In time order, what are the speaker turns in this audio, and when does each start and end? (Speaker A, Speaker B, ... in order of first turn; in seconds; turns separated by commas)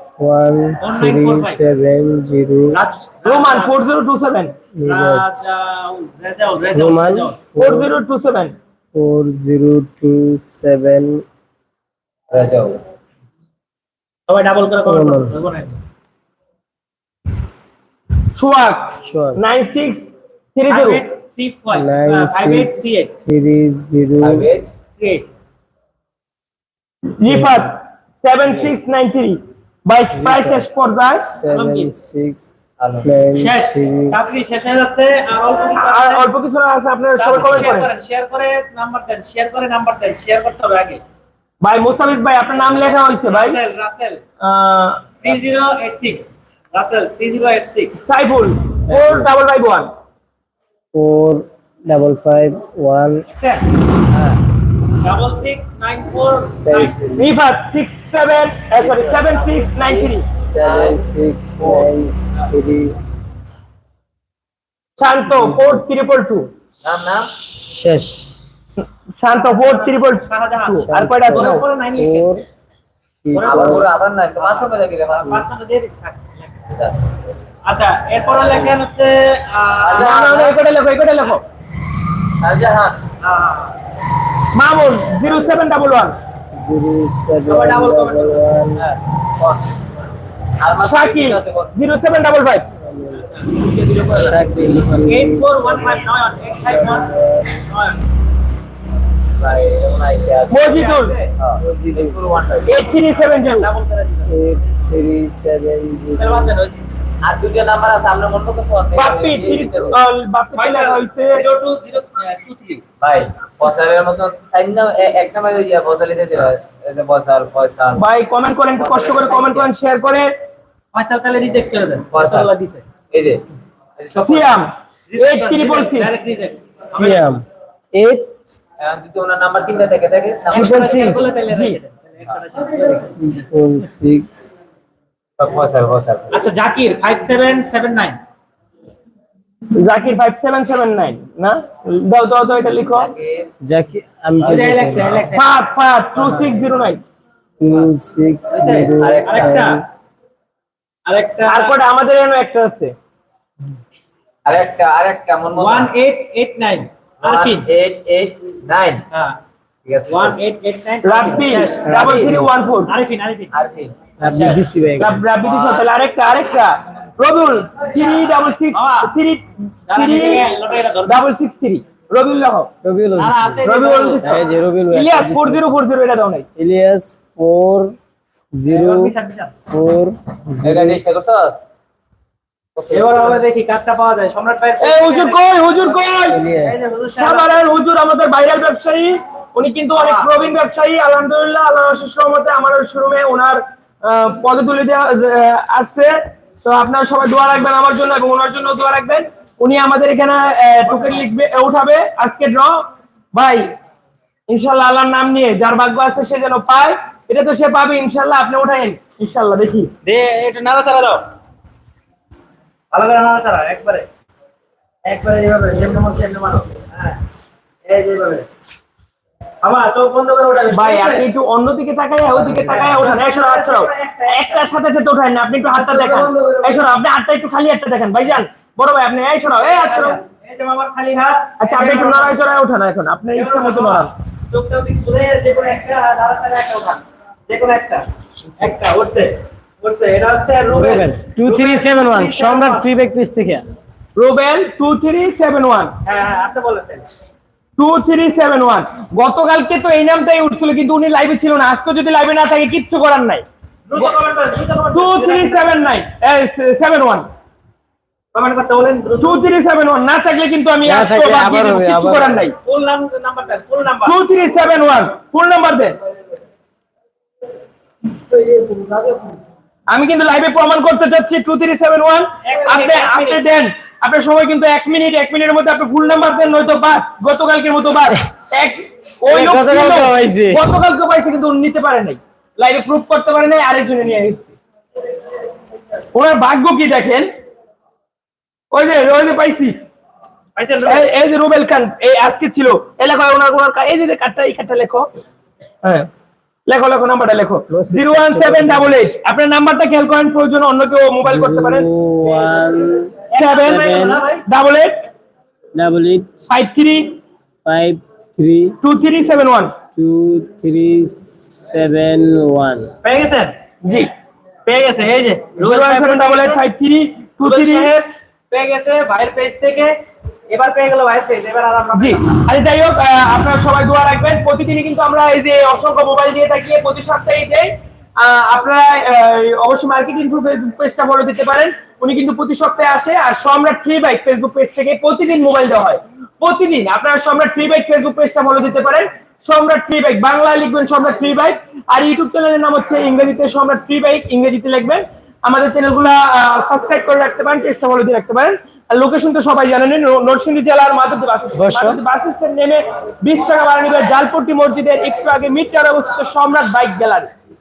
Speaker A: 0.2-2.8, Speaker B: 0.8-1.6, Speaker B: 2.7-3.7, Speaker C: 3.2-4.5, Speaker A: 4.8-5.3, Speaker B: 4.9-7.4, Speaker A: 6.7-7.9, Speaker C: 7.6-8.6, Speaker A: 8.9-11.2, Speaker D: 12.3-12.8, Speaker B: 14.3-15.8, Speaker A: 14.8-15.3, Speaker C: 18.3-21.0, Speaker A: 19.0-19.4, Speaker B: 20.7-23.1, Speaker A: 21.7-24.5, Speaker D: 24.2-24.7, Speaker B: 25.0-25.3, Speaker C: 27.2-31.3, Speaker A: 27.3-27.6, Speaker A: 30.1-30.7, Speaker A: 31.3-32.5, Speaker B: 31.5-31.9, Speaker D: 32.8-33.1, Speaker A: 33.0-34.2, Speaker B: 33.4-36.3, Speaker C: 35.8-37.9, Speaker B: 37.2-41.0, Speaker C: 41.6-43.6, Speaker B: 43.2-44.2, Speaker C: 44.4-45.1, Speaker B: 45.2-48.0, Speaker C: 48.0-49.9, Speaker A: 48.9-49.3, Speaker A: 50.9-53.3, Speaker B: 53.3-53.7, Speaker D: 54.1-54.4, Speaker B: 55.0-57.0, Speaker A: 56.6-57.4, Speaker C: 57.2-60.3, Speaker D: 58.8-61.0, Speaker A: 60.4-63.0, Speaker D: 61.6-61.9, Speaker C: 65.0-66.5, Speaker A: 65.3-65.8, Speaker D: 66.8-67.3, Speaker A: 67.5-68.4, Speaker C: 69.2-71.6, Speaker B: 69.3-72.3, Speaker A: 70.8-72.5, Speaker A: 73.2-73.9, Speaker B: 73.3-76.5, Speaker D: 73.4-75.5, Speaker B: 77.7-80.6, Speaker D: 79.8-80.5, Speaker C: 80.0-81.4, Speaker D: 82.4-83.0, Speaker B: 83.2-83.8, Speaker C: 84.5-86.2, Speaker A: 86.5-88.9, Speaker B: 87.5-88.5, Speaker D: 88.8-89.7, Speaker D: 90.6-91.7, Speaker C: 90.8-92.7, Speaker A: 92.8-93.3, Speaker D: 93.5-95.0, Speaker A: 94.2-97.7, Speaker B: 95.0-97.1, Speaker B: 97.7-98.0, Speaker D: 99.4-100.7, Speaker C: 100.5-101.1, Speaker B: 100.6-101.3, Speaker D: 101.4-102.8, Speaker A: 101.6-102.2, Speaker C: 102.7-103.7, Speaker B: 102.7-104.4, Speaker A: 104.3-106.5, Speaker B: 106.2-106.8, Speaker D: 107.2-110.0, Speaker C: 109.0-111.4, Speaker B: 110.6-112.8, Speaker D: 113.0-118.0, Speaker C: 118.0-120.3, Speaker D: 118.8-119.7, Speaker B: 120.9-122.8, Speaker D: 122.1-122.5, Speaker D: 123.1-123.4, Speaker D: 124.0-124.6, Speaker C: 124.2-126.1, Speaker B: 125.1-127.4, Speaker A: 126.9-128.6, Speaker D: 128.8-131.2, Speaker B: 130.5-133.2, Speaker C: 130.5-131.8, Speaker A: 133.2-134.5, Speaker D: 135.4-136.4, Speaker B: 136.3-138.2, Speaker C: 139.8-143.1, Speaker D: 142.9-143.5, Speaker A: 143.6-145.3, Speaker D: 144.4-145.3, Speaker B: 144.4-145.5, Speaker C: 145.3-147.0, Speaker B: 146.2-146.6, Speaker A: 147.6-149.8, Speaker B: 148.5-149.8, Speaker D: 149.0-149.7, Speaker B: 151.1-151.8, Speaker C: 151.5-152.9, Speaker D: 154.4-155.9, Speaker B: 155.6-157.7, Speaker D: 157.2-159.0, Speaker B: 159.1-159.4, Speaker D: 159.9-160.4, Speaker B: 160.1-161.9, Speaker C: 161.0-162.9, Speaker A: 161.8-162.5, Speaker D: 162.0-162.3, Speaker B: 162.9-163.5, Speaker D: 163.5-163.9, Speaker A: 164.2-165.2, Speaker B: 164.2-164.7, Speaker C: 165.0-170.5, Speaker B: 168.7-169.1, Speaker B: 169.9-171.2, Speaker C: 171.1-172.7, Speaker A: 172.8-173.7, Speaker B: 173.2-174.3, Speaker C: 173.7-176.5, Speaker A: 174.2-175.7, Speaker A: 176.6-178.0, Speaker A: 178.5-179.1, Speaker B: 178.7-179.5, Speaker A: 179.7-181.0, Speaker D: 180.6-181.6, Speaker D: 182.8-183.4, Speaker B: 182.9-185.4, Speaker C: 184.8-186.4, Speaker A: 186.3-186.8, Speaker B: 186.6-187.6, Speaker C: 187.2-203.7, Speaker B: 189.9-190.3, Speaker B: 200.9-201.2, Speaker C: 204.5-209.9, Speaker B: 210.0-211.2, Speaker B: 212.9-214.1, Speaker B: 215.1-217.2, Speaker B: 217.9-218.5, Speaker B: 219.6-221.3, Speaker C: 220.7-230.2, Speaker B: 222.4-224.7, Speaker B: 225.7-226.8, Speaker B: 229.6-232.4, Speaker C: 231.6-234.1, Speaker B: 233.3-238.1, Speaker B: 238.6-242.9, Speaker A: 240.7-243.7, Speaker C: 244.2-245.9, Speaker B: 246.1-247.1, Speaker C: 247.8-253.4, Speaker B: 253.9-255.8, Speaker C: 254.9-257.3, Speaker B: 258.3-259.4, Speaker C: 259.2-262.6, Speaker A: 260.9-262.4, Speaker B: 262.6-264.2, Speaker C: 264.1-266.0, Speaker C: 269.9-284.6, Speaker B: 272.4-273.4, Speaker A: 279.3-280.7, Speaker C: 286.1-287.3, Speaker C: 288.7-289.8, Speaker B: 290.6-291.1, Speaker C: 290.9-295.1, Speaker C: 296.7-301.9, Speaker A: 297.7-299.0, Speaker A: 301.2-304.2, Speaker B: 303.3-304.4, Speaker C: 303.3-305.1, Speaker A: 305.8-306.5, Speaker C: 306.5-307.2, Speaker A: 307.6-308.8, Speaker C: 308.8-309.7, Speaker A: 309.9-312.9, Speaker B: 313.0-313.5, Speaker C: 313.8-314.1, Speaker B: 314.7-316.6, Speaker C: 315.6-317.9, Speaker B: 317.4-319.9, Speaker B: 320.5-322.2, Speaker C: 321.9-357.3, Speaker A: 351.6-352.0